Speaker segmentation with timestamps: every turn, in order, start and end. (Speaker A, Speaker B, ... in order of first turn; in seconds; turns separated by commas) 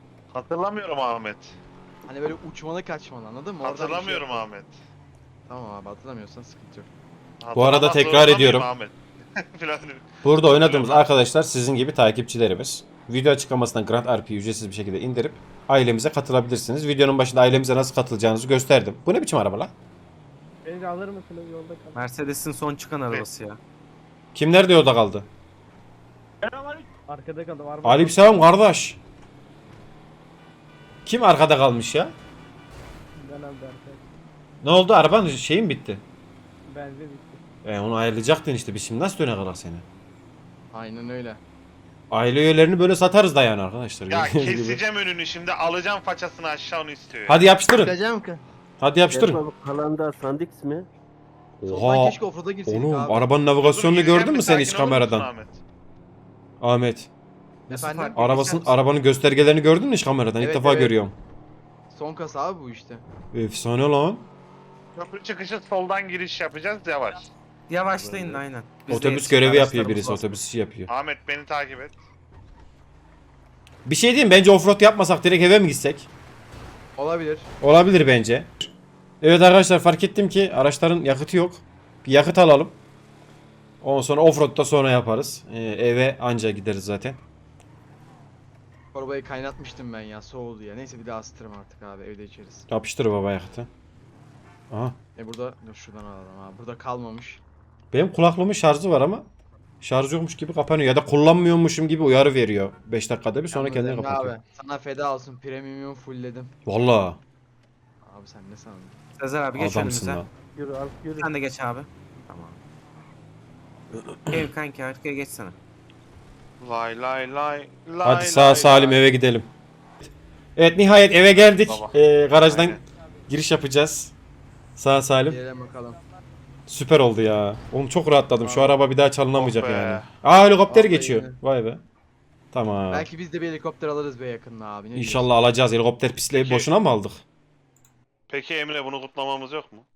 Speaker A: 0.3-1.6, Speaker B: 2.1-4.5, Speaker A: 3.6-4.8, Speaker B: 5.5-6.9, Speaker A: 7.4-11.1, Speaker C: 7.5-8.7, Speaker C: 10.2-19.7, Speaker D: 20.6-22.0, Speaker E: 21.9-23.6, Speaker C: 24.4-25.3, Speaker D: 26.4-28.4, Speaker C: 27.8-29.0, Speaker C: 31.1-32.1, Speaker D: 33.2-34.0, Speaker C: 34.6-36.0, Speaker D: 36.7-37.4, Speaker C: 37.6-39.8, Speaker B: 40.7-41.4, Speaker C: 42.1-44.8, Speaker A: 44.1-47.5, Speaker C: 47.3-48.0, Speaker B: 47.8-48.1, Speaker C: 48.8-49.4, Speaker F: 49.1-50.9, Speaker B: 51.7-53.3, Speaker C: 51.7-55.3, Speaker A: 53.6-55.6, Speaker C: 56.6-57.1, Speaker B: 57.7-58.2, Speaker E: 57.7-58.8, Speaker C: 58.1-61.1, Speaker B: 60.4-61.0, Speaker B: 61.9-63.0, Speaker C: 63.3-64.2, Speaker A: 65.0-67.3, Speaker E: 67.7-70.3, Speaker A: 68.0-68.4, Speaker C: 68.9-70.9, Speaker A: 70.9-72.0, Speaker C: 73.8-76.1, Speaker B: 77.0-77.5, Speaker C: 77.6-78.7, Speaker C: 79.2-82.8, Speaker C: 83.8-87.2, Speaker B: 88.9-92.7, Speaker C: 92.7-93.7, Speaker C: 94.7-95.0, Speaker B: 95.2-97.4, Speaker C: 97.9-99.2, Speaker C: 99.8-104.4, Speaker B: 103.5-106.5, Speaker C: 106.7-107.2, Speaker B: 108.0-109.0, Speaker E: 109.2-110.2, Speaker C: 109.5-110.3, Speaker F: 110.6-111.3, Speaker E: 111.2-112.6, Speaker E: 114.3-115.6, Speaker A: 116.6-119.0, Speaker C: 118.0-119.5, Speaker C: 120.6-124.1, Speaker A: 121.3-121.9, Speaker A: 122.5-122.8, Speaker C: 124.8-125.4, Speaker B: 125.3-126.0, Speaker C: 126.7-131.8, Speaker B: 128.4-128.7, Speaker A: 129.3-130.1, Speaker B: 130.7-131.4, Speaker C: 132.5-133.1, Speaker B: 132.9-135.3, Speaker C: 134.9-137.2, Speaker A: 136.3-136.7, Speaker A: 138.3-139.8